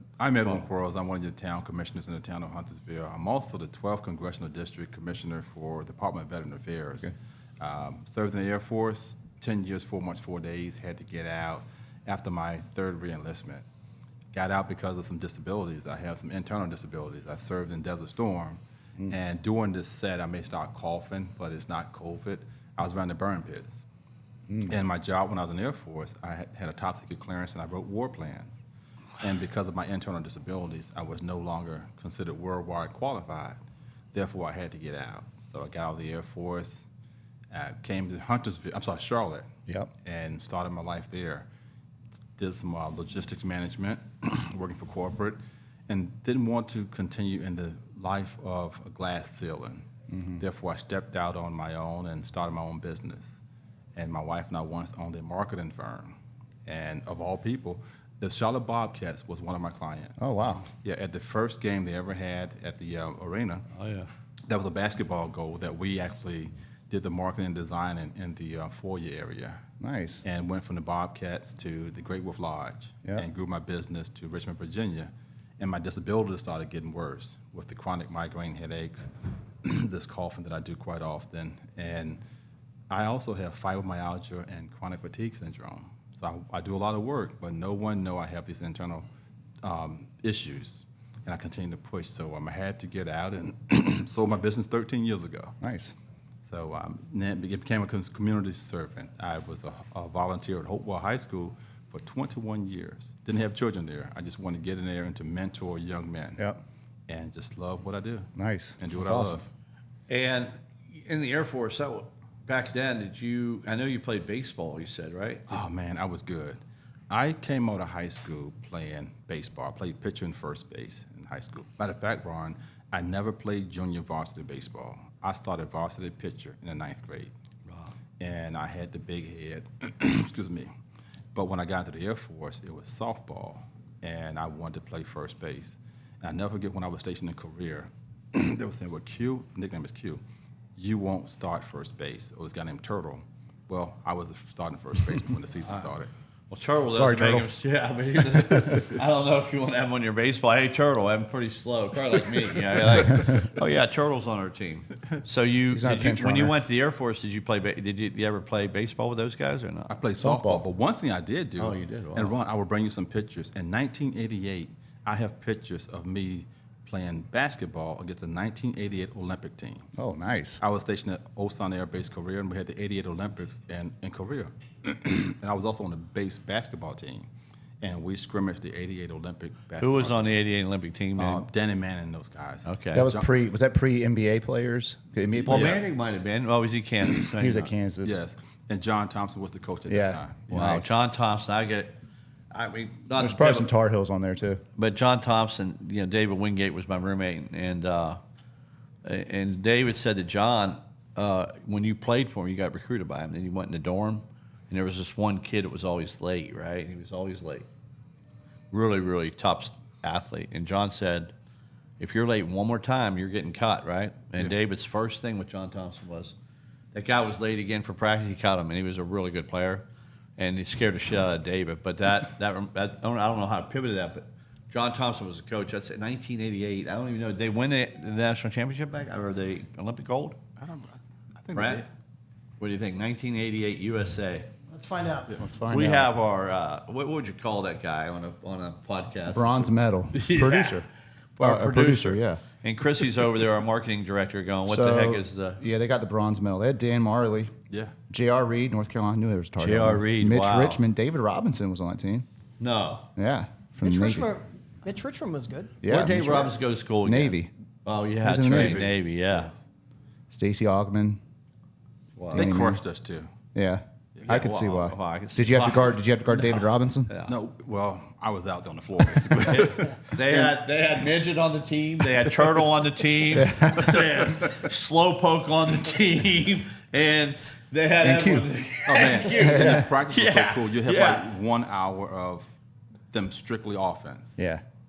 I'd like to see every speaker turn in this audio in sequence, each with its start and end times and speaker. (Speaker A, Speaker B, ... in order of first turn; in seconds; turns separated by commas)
Speaker A: 0.2-13.6, Speaker A: 14.3-23.9, Speaker A: 24.6-28.7, Speaker A: 29.2-33.6, Speaker A: 34.1-36.9, Speaker A: 37.5-39.5, Speaker A: 40.0-41.5, Speaker A: 42.4-49.8, Speaker B: 50.1-50.4, Speaker A: 50.4-53.4, Speaker A: 54.0-63.7, Speaker B: 60.2-60.7, Speaker C: 63.7-64.1, Speaker A: 64.5-69.6, Speaker B: 69.8-70.2, Speaker A: 70.2-79.1, Speaker A: 79.6-82.2, Speaker A: 82.9-89.1, Speaker A: 89.6-95.6, Speaker B: 95.6-96.0, Speaker A: 96.4-106.4, Speaker A: 107.1-109.5, Speaker B: 108.4-109.4, Speaker C: 110.1-115.6, Speaker A: 115.5-127.3, Speaker C: 127.7-127.9, Speaker A: 128.2-130.7, Speaker A: 131.3-140.2, Speaker A: 140.8-146.1, Speaker C: 146.5-159.9, Speaker B: 146.9-147.5, Speaker B: 148.3-148.9, Speaker B: 155.7-156.5, Speaker A: 159.9-169.9, Speaker B: 160.2-160.7, Speaker C: 161.6-162.3, Speaker B: 170.0-170.6, Speaker A: 170.6-177.3, Speaker A: 177.8-180.4, Speaker C: 179.8-181.4, Speaker A: 181.2-183.3, Speaker C: 182.7-183.1, Speaker B: 182.9-185.8, Speaker C: 185.5-187.7, Speaker A: 185.5-185.8, Speaker B: 187.4-188.2, Speaker A: 188.0-190.5, Speaker B: 189.9-190.9, Speaker C: 190.5-192.0, Speaker C: 192.5-193.7, Speaker B: 193.2-194.6, Speaker C: 194.8-198.2, Speaker C: 199.0-207.7, Speaker C: 208.7-211.3, Speaker C: 212.0-216.3, Speaker C: 216.9-219.8, Speaker C: 220.4-230.3, Speaker A: 230.6-231.9, Speaker C: 231.5-231.8, Speaker C: 232.6-234.6, Speaker D: 234.7-235.3, Speaker B: 235.4-236.1, Speaker C: 235.7-240.8, Speaker B: 239.3-240.9, Speaker C: 241.4-245.6, Speaker B: 241.4-242.4, Speaker B: 244.7-247.5, Speaker B: 248.1-252.2, Speaker C: 249.6-250.8, Speaker C: 252.6-253.1, Speaker B: 253.2-254.3, Speaker D: 253.8-256.5, Speaker B: 255.8-256.2, Speaker C: 255.8-259.5, Speaker B: 257.0-257.5, Speaker B: 258.2-258.8, Speaker A: 258.4-259.6, Speaker B: 260.3-261.2, Speaker C: 262.1-262.6, Speaker B: 262.3-262.8, Speaker A: 262.3-263.3, Speaker B: 263.5-267.1, Speaker A: 264.1-264.4, Speaker C: 264.2-266.6, Speaker A: 267.2-270.0, Speaker C: 269.5-281.2, Speaker B: 273.4-273.9, Speaker B: 278.0-278.5, Speaker A: 278.8-282.5, Speaker B: 279.2-279.9, Speaker A: 283.1-284.4, Speaker B: 284.4-284.6